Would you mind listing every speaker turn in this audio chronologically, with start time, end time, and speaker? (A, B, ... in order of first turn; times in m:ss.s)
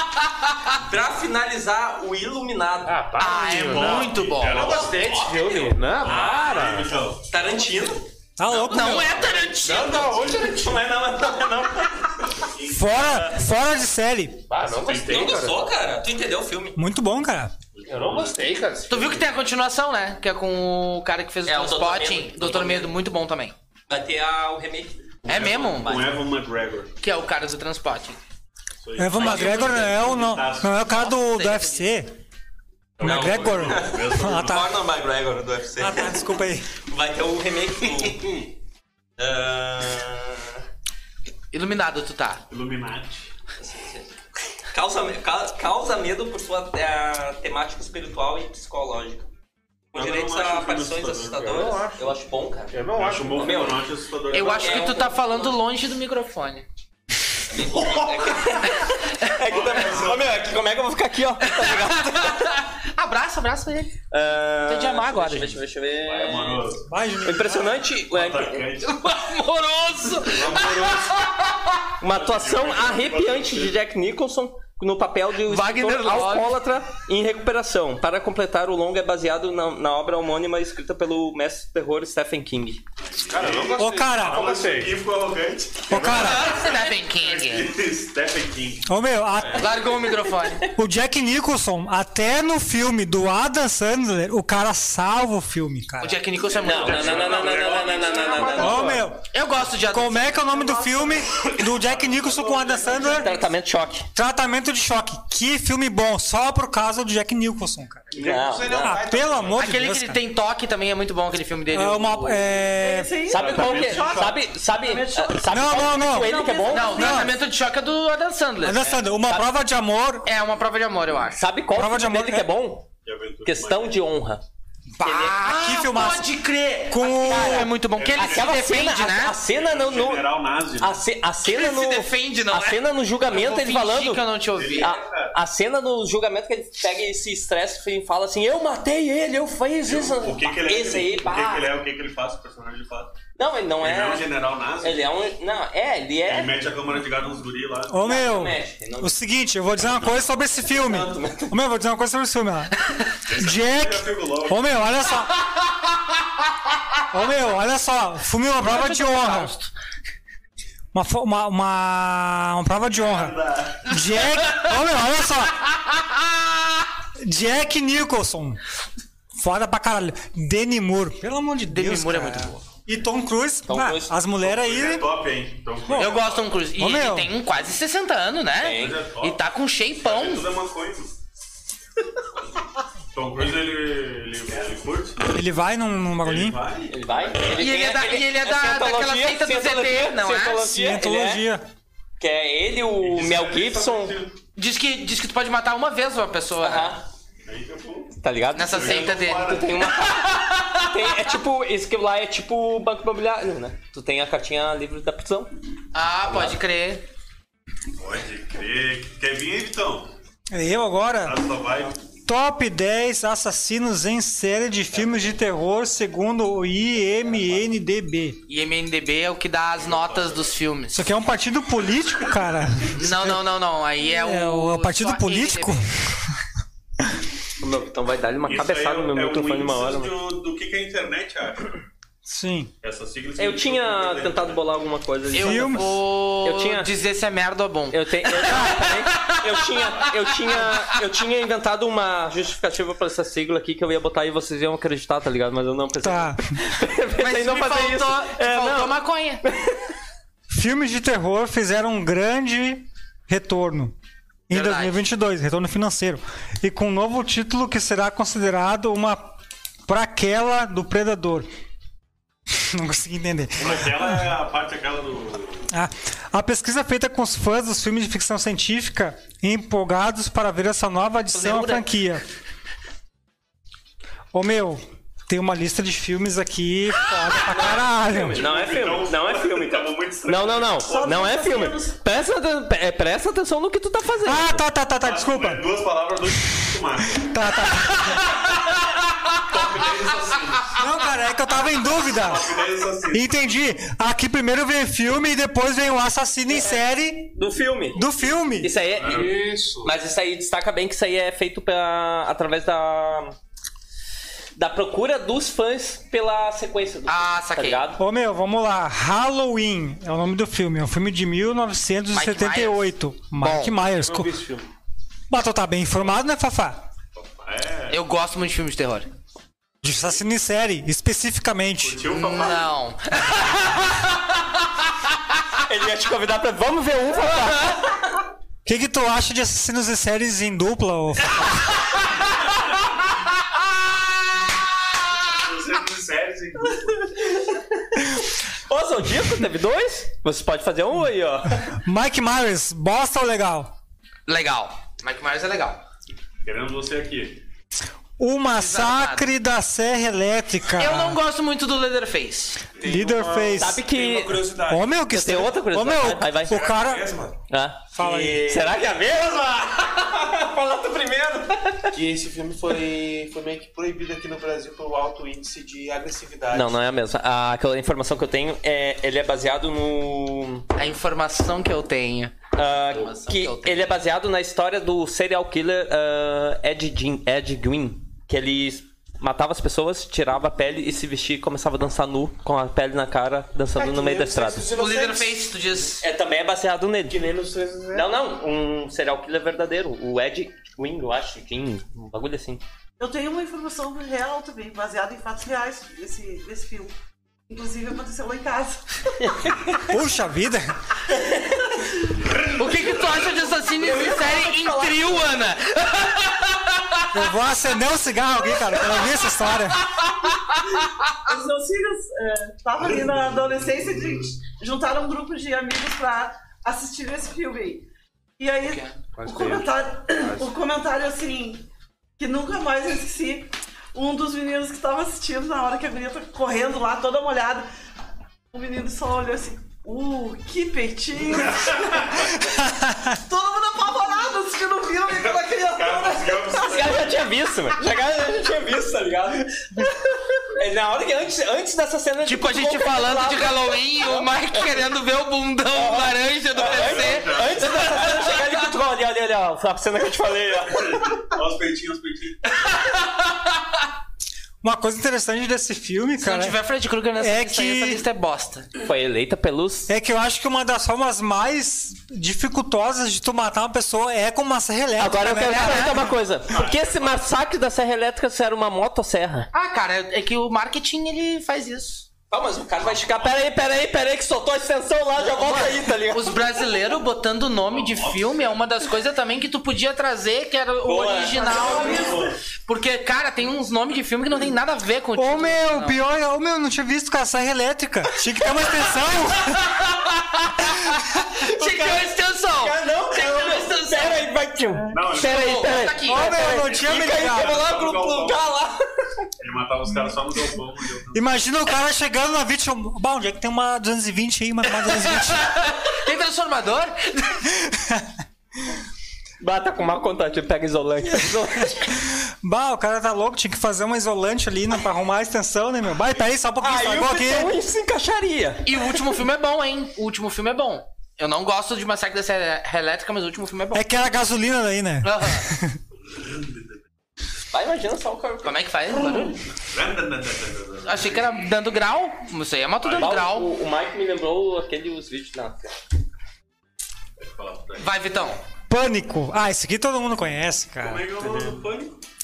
0:00.4-0:00.8 A
0:00.7-0:03.0 B
0:02.8-0:06.9 C
0:03.2-0:04.7 A
0:03.6-0:05.0 D
0:04.5-0:06.6 B
0:06.0-0:07.4 D
0:07.3-0:13.4 B
0:08.4-0:09.2 E
0:08.7-0:10.2 A
0:09.6-0:10.8 C
0:12.4-0:13.2 D
0:12.7-0:14.4 E
0:14.5-0:15.6 C
0:14.8-0:15.4 D
0:14.9-0:16.8 B
0:16.8-0:17.5 E
0:17.7-0:18.4 D
0:17.8-0:19.3 C
0:18.9-0:23.5 A
0:21.4-0:22.9 B
0:23.9-0:26.2 B
0:25.2-0:26.9 D
0:25.2-0:26.0 A
0:27.0-0:28.2 A
0:28.8-0:30.9 D
0:29.0-0:32.1 E
0:29.2-0:29.8 A
0:30.9-0:31.8 A
0:33.0-0:34.7 D
0:33.0-0:34.6 E
0:33.0-0:36.3 B
0:35.8-0:36.7 E
0:36.8-0:38.4 B
0:39.2-0:40.6 B
0:41.5-0:42.4 A
0:42.5-0:43.3 D
0:43.6-0:44.1 B
0:44.7-0:49.3 B
0:49.9-0:55.6 B
0:49.9-0:51.7 D
0:51.4-0:52.2 C
0:52.7-0:53.6 C
0:52.9-0:55.1 D
0:54.3-0:56.6 A
0:57.5-1:02.6 B
0:59.4-1:00.5 D
1:01.5-1:03.9 A
1:04.1-1:06.7 B
1:04.7-1:05.6 A
1:06.0-1:06.9 D
1:06.9-1:07.8 E
1:07.2-1:08.7 B
1:07.9-1:08.9 D
1:08.8-1:11.8 A
1:10.2-1:11.1 D
1:12.0-1:22.8 B
1:12.0-1:13.8 D
1:15.4-1:16.5 A
1:23.0-1:29.7 D
1:23.3-1:25.0 C
1:23.8-1:24.4 E
1:25.9-1:26.6 E
1:25.9-1:26.2 C
1:26.1-1:27.7 A
1:28.9-1:29.6 E
1:29.5-1:30.6 A
1:30.7-1:36.2 E
1:36.0-1:37.8 A
1:36.5-1:39.0 D
1:36.6-1:39.0 B
1:38.3-1:39.0 C
1:38.6-1:39.2 E
1:39.3-1:41.1 A
1:39.8-1:43.3 E
1:41.3-1:43.4 D
1:43.0-1:44.1 B
1:44.1-1:48.1 E
1:48.1-1:49.6 C
1:48.2-1:49.0 B
1:48.6-1:50.2 E
1:49.6-1:52.5 A
1:51.7-1:53.1 E
1:52.7-1:57.2 F
1:53.3-1:57.1 B
1:53.4-1:54.4 C
1:53.5-1:53.9 D
1:55.4-1:57.3 E
1:56.7-1:59.0 A
1:58.6-2:00.2 E
2:00.2-2:01.4 A
2:01.4-2:02.9 B
2:01.7-2:02.5 E
2:03.0-2:04.0 D
2:03.4-2:04.4 B
2:05.0-2:09.4 A
2:05.0-2:05.4 B
2:05.4-2:06.3 E
2:06.9-2:07.7 E
2:07.2-2:10.3 B
2:07.9-2:08.6 D
2:09.4-2:11.0 D
2:10.8-2:14.2 B
2:11.4-2:14.9 A
2:14.5-2:15.4 D
2:14.8-2:21.7 B
2:19.8-2:23.1 D
2:23.4-2:24.3 B
2:23.8-2:25.0 D
2:24.8-2:26.5 B
2:26.2-2:28.0 D
2:27.9-2:32.8 E
2:28.0-2:29.1 B
2:30.6-2:31.5 B
2:33.2-2:34.9 D
2:33.4-2:35.3 E
2:37.1-2:39.5 E
2:38.6-2:39.7 A
2:40.9-2:45.7 E
2:42.9-2:44.0 D
2:44.4-2:44.7 A
2:45.9-2:46.7 A
2:47.2-2:48.6 E
2:49.3-2:55.1 E
2:51.7-2:52.6 A
2:53.7-2:54.1 B
2:54.3-2:56.7 D
2:55.9-2:56.1 E
2:56.0-3:00.5 A
2:56.8-2:57.3 E
2:58.6-2:59.0 B
2:58.7-2:59.4 D
3:00.0-3:01.1 D
3:03.1-3:05.4 D
3:05.3-3:06.6 E
3:06.2-3:07.4 D
3:06.9-3:11.4 B
3:07.5-3:10.7 A
3:10.7-3:11.6 E
3:12.2-3:14.2 B
3:13.0-3:14.4 D
3:14.6-3:17.0 A
3:16.6-3:17.0 B
3:17.4-3:18.1 D
3:18.1-3:25.5 B
3:18.5-3:20.9 A
3:18.6-3:19.8 D
3:25.9-3:27.0 A
3:26.2-3:26.6 B
3:28.0-3:30.1 D
3:30.5-3:31.4 E
3:31.2-3:32.0 D
3:32.2-3:38.4 E
3:38.5-3:41.1 A
3:39.8-3:40.6 D
3:40.9-3:43.4 E
3:42.9-3:45.8 A
3:44.0-3:46.3 E
3:47.6-3:50.1 B
3:48.4-3:51.8 D
3:52.2-3:52.7 E
3:52.8-3:54.6 D
3:53.4-3:56.9 B
3:55.3-3:56.0 E
3:55.3-4:01.0 A
3:57.9-4:09.9 B
4:06.0-4:06.6 E
4:07.2-4:09.4 A
4:10.5-4:13.9 E
4:14.5-4:19.3 E
4:14.5-4:15.0 A
4:19.9-4:21.4 E
4:22.6-4:24.3 E
4:23.6-4:25.7 D
4:25.7-4:32.2 E
4:31.3-4:31.8 A
4:34.3-4:38.4 E
4:37.3-4:44.6 B
4:38.3-4:41.3 D
4:40.8-4:42.0 F
4:44.2-4:45.6 E
4:45.0-4:47.8 D
4:47.2-4:48.4 E
4:49.5-4:50.9 D
4:50.7-4:52.6 E
4:52.0-4:53.8 D
4:53.1-4:57.3 E
4:57.4-4:58.0 B
4:57.9-4:58.7 E
4:58.6-5:03.3 B
4:58.8-4:59.3 D
4:59.0-4:59.9 C
5:04.6-5:08.0 B
5:07.1-5:07.8 A
5:08.0-5:14.3 E
5:12.1-5:13.7 A
5:14.0-5:14.7 C
5:15.3-5:16.8 E
5:17.1-5:18.0 D
5:17.9-5:19.1 A
5:19.8-5:22.0 E
5:21.8-5:22.8 D
5:22.0-5:24.2 A
5:25.6-5:28.2 B
5:28.6-5:31.7 E
5:35.3-5:37.1 D
5:37.3-5:41.7 B
5:41.7-5:43.7 E
5:44.3-5:45.8 A
5:46.4-5:47.4 D
5:48.2-5:51.2 E
5:48.5-5:49.3 A
5:50.8-5:52.6 A
5:52.8-5:55.0 C
5:52.8-5:53.8 E
5:53.6-5:54.5 B
5:54.7-5:57.0 E
5:55.1-5:56.7 B
5:56.5-5:57.3 C
5:57.5-6:02.0 B
5:57.9-5:58.6 E
6:01.9-6:06.8 C
6:06.5-6:10.7 B
6:10.8-6:14.0 A
6:12.5-6:24.7 B
6:23.7-6:25.7 C
6:24.7-6:26.0 A
6:26.0-6:27.2 B
6:27.1-6:28.1 C
6:27.9-6:32.6 B
6:33.0-6:36.9 F
6:37.5-6:39.6 F
6:39.9-6:40.8 E
6:41.1-6:41.6 B
6:42.3-6:43.3 D
6:42.5-6:47.1 A
6:43.7-6:45.4 B
6:47.1-6:49.9 E
6:48.7-6:49.0 A
6:49.7-6:51.1 A
6:51.1-6:57.8 F
6:52.8-6:54.3 D
6:58.4-7:01.6 F
6:58.6-6:59.0 A
6:59.2-7:00.5 C
7:02.2-7:07.7 F
7:08.5-7:12.4 F
7:11.5-7:12.2 D
7:12.4-7:13.1 E
7:13.1-7:17.0 F
7:15.1-7:17.2 D
7:16.6-7:24.8 B
7:22.2-7:28.6 A
7:25.7-7:31.1 B
7:26.6-7:27.9 D
7:30.8-7:32.5 D
7:34.6-7:36.6 E
7:36.2-7:38.7 A
7:37.2-7:38.0 E
7:38.8-7:39.9 B
7:39.9-7:46.1 E
7:45.0-7:49.5 B
7:45.4-7:46.0 A
7:46.5-7:47.3 D
7:49.5-7:52.1 A
7:52.3-7:56.4 B
7:52.8-7:53.4 D
7:55.4-8:06.0 A
7:57.6-7:58.6 D
8:00.8-8:02.1 B
8:01.3-8:02.2 F
8:01.6-8:02.4 D
8:05.2-8:09.7 E
8:09.5-8:14.3 A
8:11.5-8:19.2 B
8:14.9-8:15.9 D
8:15.2-8:16.4 A
8:16.0-8:17.6 E
8:16.4-8:18.5 D
8:19.4-8:21.4 D
8:21.1-8:25.6 E
8:24.8-8:27.5 A
8:27.6-8:28.1 E
8:29.4-8:31.9 B
8:31.2-8:37.5 E
8:36.6-8:38.9 B
8:38.6-8:44.0 A
8:43.7-8:45.8 E
8:45.0-8:45.5 A
8:46.1-8:46.7 D
8:47.5-8:48.6 B
8:48.4-8:49.4 A
8:49.1-8:51.4 D
8:50.8-8:53.5 A
8:52.8-8:53.2 D
8:53.0-8:55.8 B
8:57.2-8:58.0 D
8:57.8-8:58.4 A
8:58.7-9:01.1 E
9:00.8-9:02.0 D